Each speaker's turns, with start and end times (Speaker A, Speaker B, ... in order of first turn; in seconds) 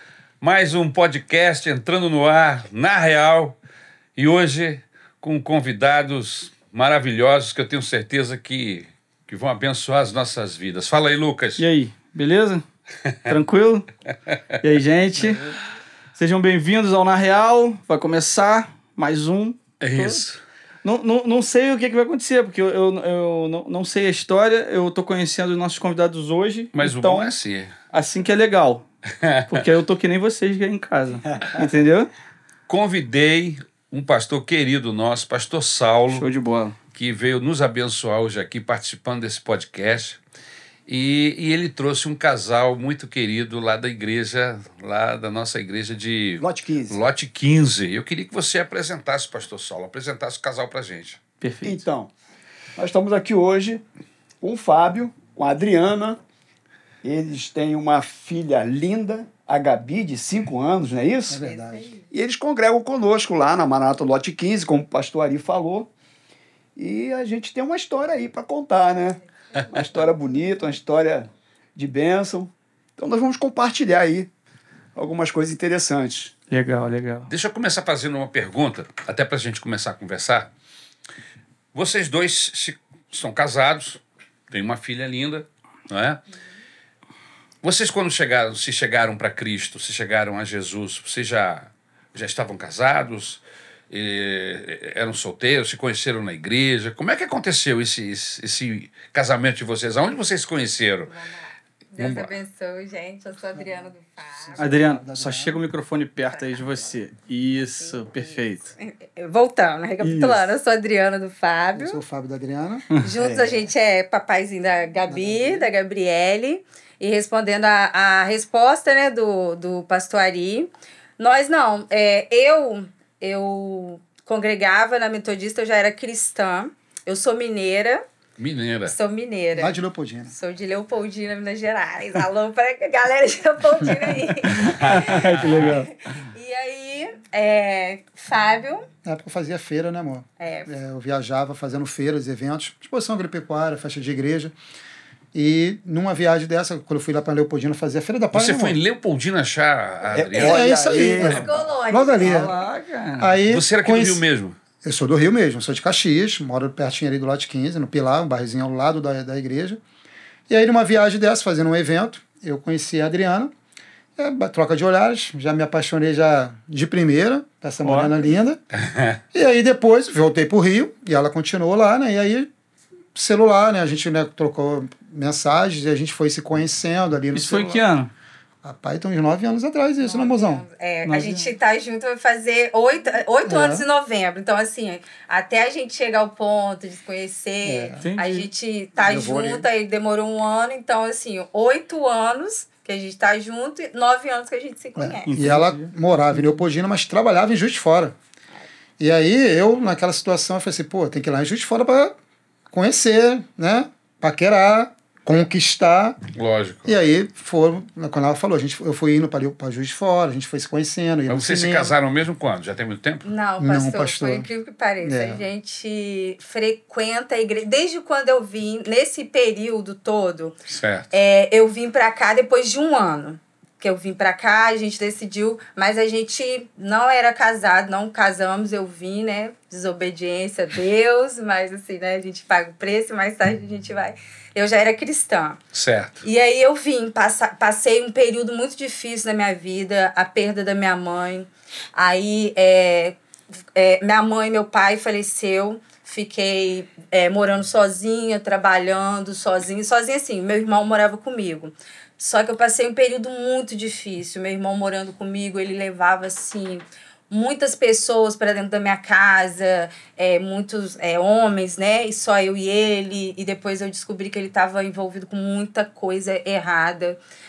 Speaker A: 0.4-3.6, 4.2-11.6, 19.8-20.4, 26.7-27.8, 29.2-29.6, 32.7-36.3, 36.9-40.2, 40.9-51.2, 77.3-80.5, 81.7-86.2, 87.6-101.1, 102.0-102.3, 128.4-128.9, 134.7-135.7, 148.3-151.2, 153.4-154.6, 168.8-169.2, 206.3-207.0, 211.3-213.3, 220.7-221.1, 235.7-236.2
Speaker B: 11.6-12.6, 13.3-13.9, 14.6-15.6, 16.1-20.2, 20.8-27.3, 27.9-28.9, 29.5-32.1, 36.1-36.8, 51.4-51.8, 76.5-77.3, 104.6-108.7, 110.0-110.5, 112.9-113.5, 134.5-135.9, 152.2-153.3, 167.8-168.2, 177.3-178.1, 181.0-181.6, 188.0-188.5, 195.3-196.6
Speaker C: 46.4-47.0, 51.6-52.1, 52.8-53.8, 54.4-56.2, 57.0-61.5, 62.1-65.9, 66.8-74.3, 74.9-76.3, 150.1-151.5
Speaker D: 61.3-61.9, 104.5-105.6, 111.8-113.6, 115.1-115.7, 129.5-130.3, 139.0-144.5, 145.3-148.8, 150.3-152.5, 153.2-154.2, 154.8-159.8, 160.5-163.5, 164.2-168.6, 169.3-172.5, 173.1-177.8, 178.6-180.7, 183.4-183.8, 187.6-188.0, 189.0-189.7, 195.0-198.2, 199.0-202.1, 202.7-206.2, 206.8-211.9, 213.6-214.5, 215.0-215.4
Speaker E: 61.4-62.0, 101.1-101.4, 101.9-104.9, 106.3-106.8, 107.8-112.0, 113.0-128.0, 128.8-138.9, 140.4-140.7, 151.0-152.5, 180.0-195.3, 213.2-220.6, 221.1-235.6, 236.2-243.2, 243.7-267.2